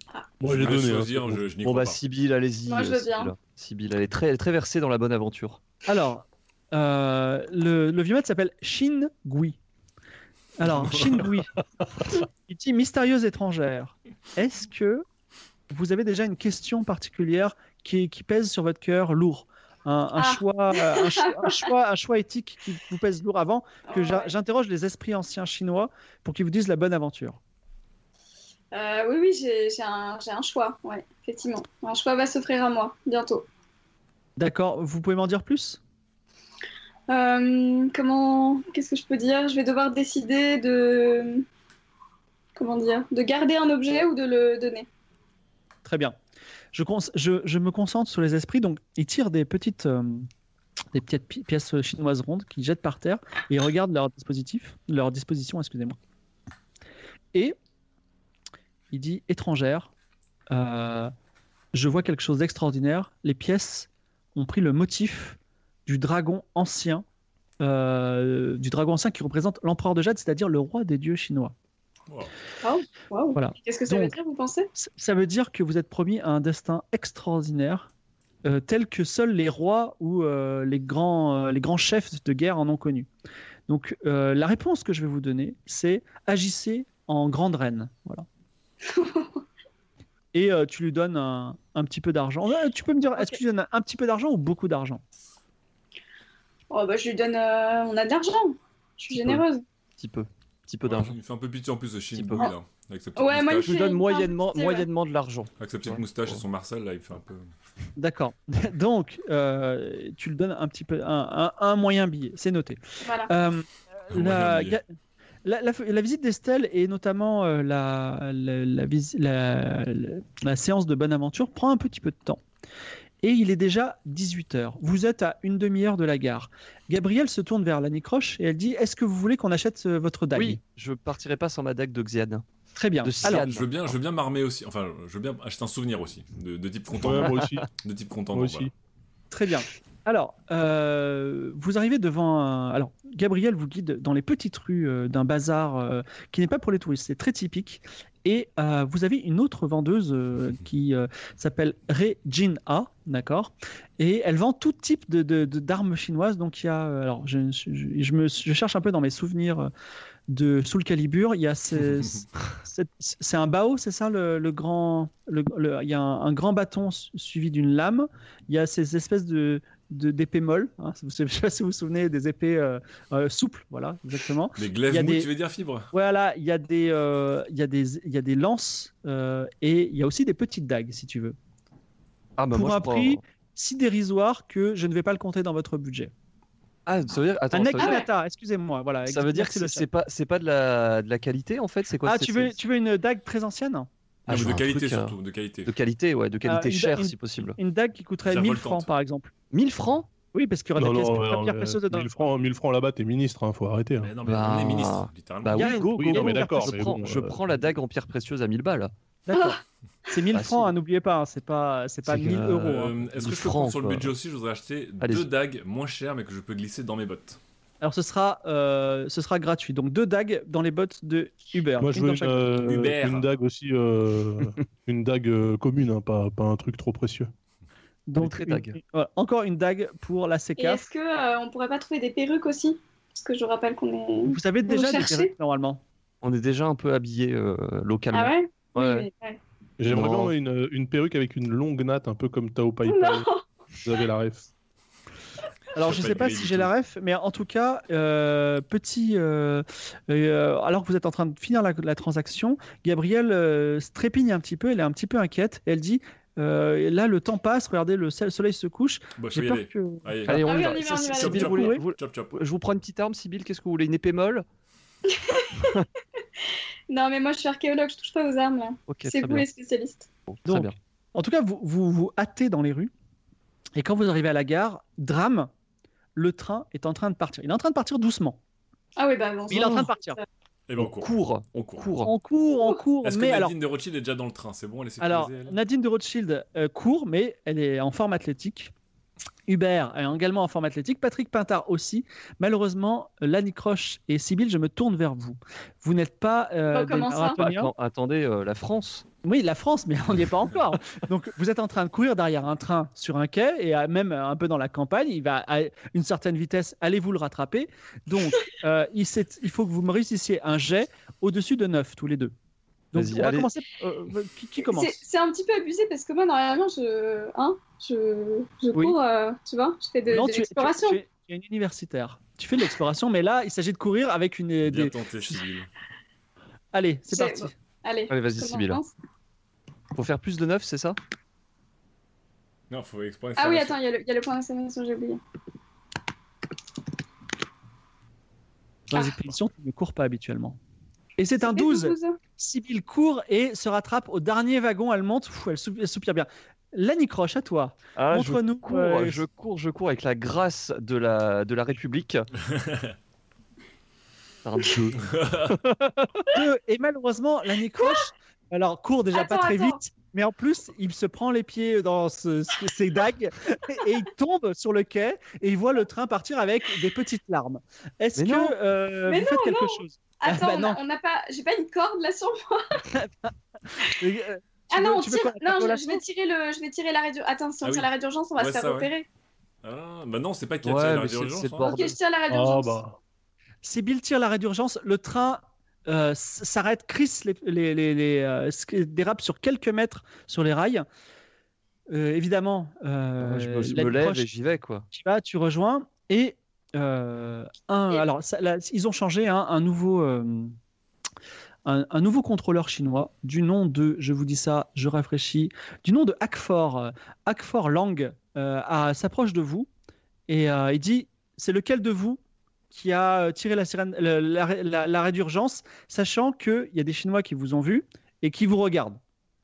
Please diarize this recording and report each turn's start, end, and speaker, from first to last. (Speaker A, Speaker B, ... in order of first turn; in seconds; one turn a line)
Speaker A: 0.4-1.4
Speaker B: 0.4-2.0
Speaker C: 1.6-5.6
Speaker D: 2.7-3.3
Speaker E: 5.9-9.6
Speaker E: 10.6-11.5
Speaker E: 12.2-15.0
Speaker E: 15.7-27.4
Speaker D: 20.2-21.7
Speaker D: 23.9-24.3
Speaker D: 28.7-33.5
Speaker E: 34.4-35.8
Speaker D: 37.1-41.5
Speaker D: 42.6-44.9
Speaker E: 45.8-46.2
Speaker E: 46.7-50.3
Speaker E: 50.9-56.0
Speaker E: 58.9-59.9
Speaker E: 60.5-61.1
Speaker E: 61.7-67.0
Speaker E: 67.6-71.5
Speaker B: 72.1-72.3
Speaker D: 72.6-74.7
Speaker E: 73.3-74.1
Speaker E: 74.8-77.9
Speaker E: 78.5-83.1
Speaker E: 83.7-88.3
Speaker D: 88.9-89.4
Speaker E: 90.3-95.0
Speaker D: 96.7-99.7
Speaker C: 99.2-99.4
Speaker C: 100.0-101.2
Speaker B: 100.8-103.8
Speaker C: 102.1-102.5
Speaker D: 103.2-104.9
Speaker C: 103.7-106.4
Speaker B: 105.6-107.5
Speaker E: 108.0-114.9
Speaker D: 113.0-113.3
Speaker B: 114.1-114.8
Speaker E: 115.4-122.4
Speaker E: 123.2-130.6
Speaker C: 130.3-132.4
Speaker E: 132.8-133.5
Speaker C: 133.0-133.9
Speaker B: 133.2-138.7
Speaker A: 137.0-137.7
Speaker C: 137.1-137.6
Speaker A: 138.3-138.7
Speaker E: 139.3-159.7
Speaker E: 160.3-175.3
Speaker B: 174.6-175.9
Speaker E: 175.9-181.4
Speaker C: 182.4-183.2
Speaker E: 182.5-186.1
Speaker C: 186.9-188.0
Speaker E: 187.5-189.9
Speaker D: 187.8-188.1
Speaker C: 189.1-192.6
Speaker E: 192.0-193.9
Speaker C: 194.3-197.6
Speaker B: 194.3-195.7
Speaker E: 196.5-199.3
Speaker B: 198.2-198.9
Speaker C: 199.5-200.1
Speaker E: 200.3-202.1
Speaker A: 200.8-204.1
Speaker B: 204.0-205.7
Speaker C: 204.2-208.9
Speaker E: 205.6-206.8
Speaker A: 205.6-207.6
Speaker E: 209.3-212.9
Speaker D: 209.3-209.6
Speaker C: 210.3-210.7
Speaker C: 212.1-214.1
Speaker B: 212.6-217.4
Speaker C: 215.0-215.3
Speaker E: 217.8-222.5
Speaker A: 221.8-227.3
Speaker B: 222.6-223.3
Speaker E: 228.1-230.8
Speaker C: 228.2-228.8
Speaker D: 230.6-235.3
Speaker E: 234.3-235.8
Speaker C: 236.2-239.1
Speaker D: 238.1-239.4
Speaker A: 239.8-243.3
Speaker C: 239.9-240.3
Speaker D: 242.8-243.4
Speaker A: 243.8-244.5
Speaker E: 245.7-260.1
Speaker B: 245.8-246.7
Speaker B: 259.2-262.3
Speaker C: 260.3-264.4
Speaker D: 260.3-261.8
Speaker D: 265.1-265.8
Speaker D: 266.9-270.1
Speaker C: 268.9-269.5
Speaker C: 270.3-270.8
Speaker E: 270.5-272.9
Speaker E: 273.8-275.5
Speaker E: 276.2-278.4
Speaker D: 279.0-280.2
Speaker E: 279.5-280.2
Speaker B: 280.7-281.9
Speaker C: 280.9-282.1
Speaker E: 282.0-283.5
Speaker B: 283.0-285.6
Speaker E: 285.0-288.7
Speaker E: 289.5-297.7
Speaker D: 296.7-297.4
Speaker C: 297.3-299.1
Speaker E: 299.2-312.3
Speaker E: 312.9-315.0
Speaker C: 313.0-313.5
Speaker D: 314.7-321.0
Speaker E: 320.1-325.4
Speaker B: 324.6-325.7
Speaker E: 326.7-327.6
Speaker D: 327.1-328.9
Speaker C: 328.1-328.8
Speaker C: 329.9-331.0
Speaker B: 332.7-333.8
Speaker D: 333.4-335.2
Speaker E: 338.9-340.6
Speaker E: 341.2-349.2
Speaker D: 341.4-342.2
Speaker C: 348.0-352.3
Speaker B: 352.5-352.9
Speaker C: 354.4-355.6
Speaker B: 355.0-355.5
Speaker E: 356.3-370.8
Speaker D: 359.1-359.8
Speaker C: 368.2-368.5
Speaker D: 369.1-372.6
Speaker E: 372.9-376.0
Speaker D: 374.7-379.1
Speaker B: 377.6-378.9
Speaker B: 379.6-381.7
Speaker C: 380.6-382.0
Speaker D: 381.6-382.8
Speaker A: 382.3-383.0
Speaker E: 383.6-390.9
Speaker E: 391.9-394.3
Speaker C: 393.2-394.9
Speaker E: 394.9-400.6
Speaker E: 401.6-409.7
Speaker E: 410.3-412.2
Speaker E: 412.7-419.0